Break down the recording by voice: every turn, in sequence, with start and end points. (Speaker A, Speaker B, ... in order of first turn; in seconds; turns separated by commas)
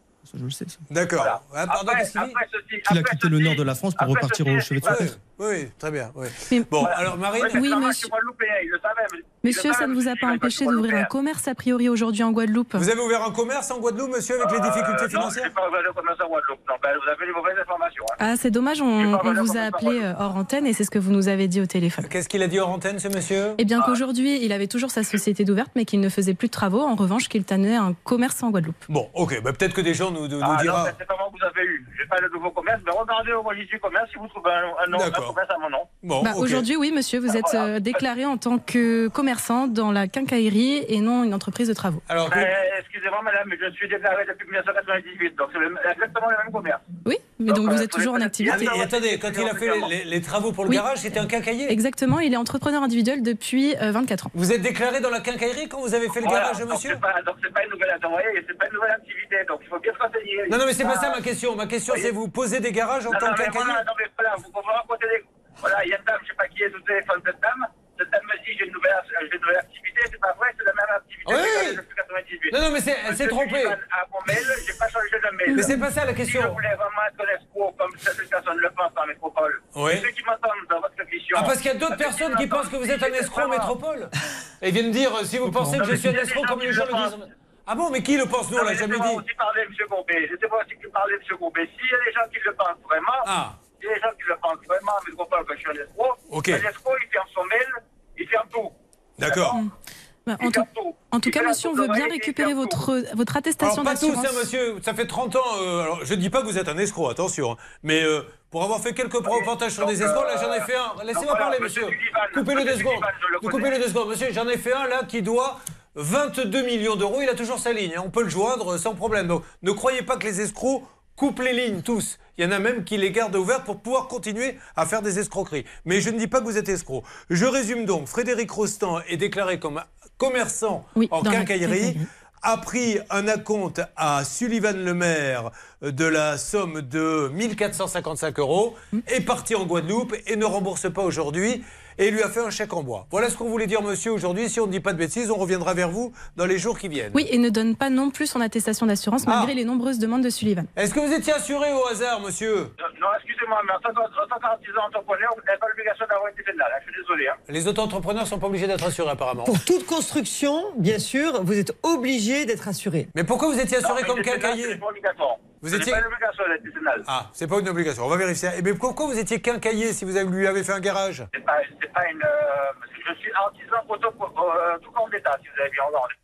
Speaker A: 0.2-0.8, Speaker B: 0.9-2.4, Speaker C: 1.2-5.0, Speaker A: 2.9-5.1, Speaker B: 4.8-7.8, Speaker D: 6.5-6.8, Speaker C: 6.8-11.1, Speaker D: 7.5-8.1, Speaker D: 9.4-12.8, Speaker B: 12.8-15.5, Speaker C: 14.4-18.1, Speaker D: 18.2-22.1, Speaker C: 19.0-20.0, Speaker B: 22.0-23.6, Speaker D: 23.6-28.8, Speaker B: 28.9-30.9, Speaker C: 30.4-35.9, Speaker B: 34.9-35.3, Speaker B: 36.0-36.6, Speaker D: 36.2-42.0, Speaker C: 37.3-37.8, Speaker B: 42.1-42.5, Speaker C: 42.3-46.8, Speaker D: 47.0-48.8, Speaker C: 47.5-49.9, Speaker B: 48.5-51.8, Speaker D: 51.7-54.3, Speaker B: 54.3-57.0, Speaker C: 56.2-61.2, Speaker B: 60.5-63.8, Speaker C: 63.1-75.7, Speaker B: 71.2-71.8, Speaker B: 72.5-73.8, Speaker B: 75.5-76.6, Speaker C: 76.2-83.7, Speaker B: 79.7-80.0, Speaker B: 81.3-89.2, Speaker C: 85.7-87.1, Speaker C: 88.5-99.6, Speaker B: 93.2-93.6, Speaker B: 96.3-96.6, Speaker B: 99.2-99.6, Speaker D: 100.3-104.5, Speaker C: 100.4-102.8, Speaker B: 103.6-147.2, Speaker C: 109.2-113.7, Speaker D: 130.9-132.0, Speaker D: 147.1-150.7, Speaker B: 149.2-149.5, Speaker B: 150.8-152.7, Speaker C: 152.8-157.4, Speaker B: 157.5-159.6, Speaker E: 159.4-163.1, Speaker B: 163.1-164.8, Speaker C: 163.8-167.0, Speaker B: 165.6-166.0, Speaker B: 167.1-171.3, Speaker C: 171.3-176.1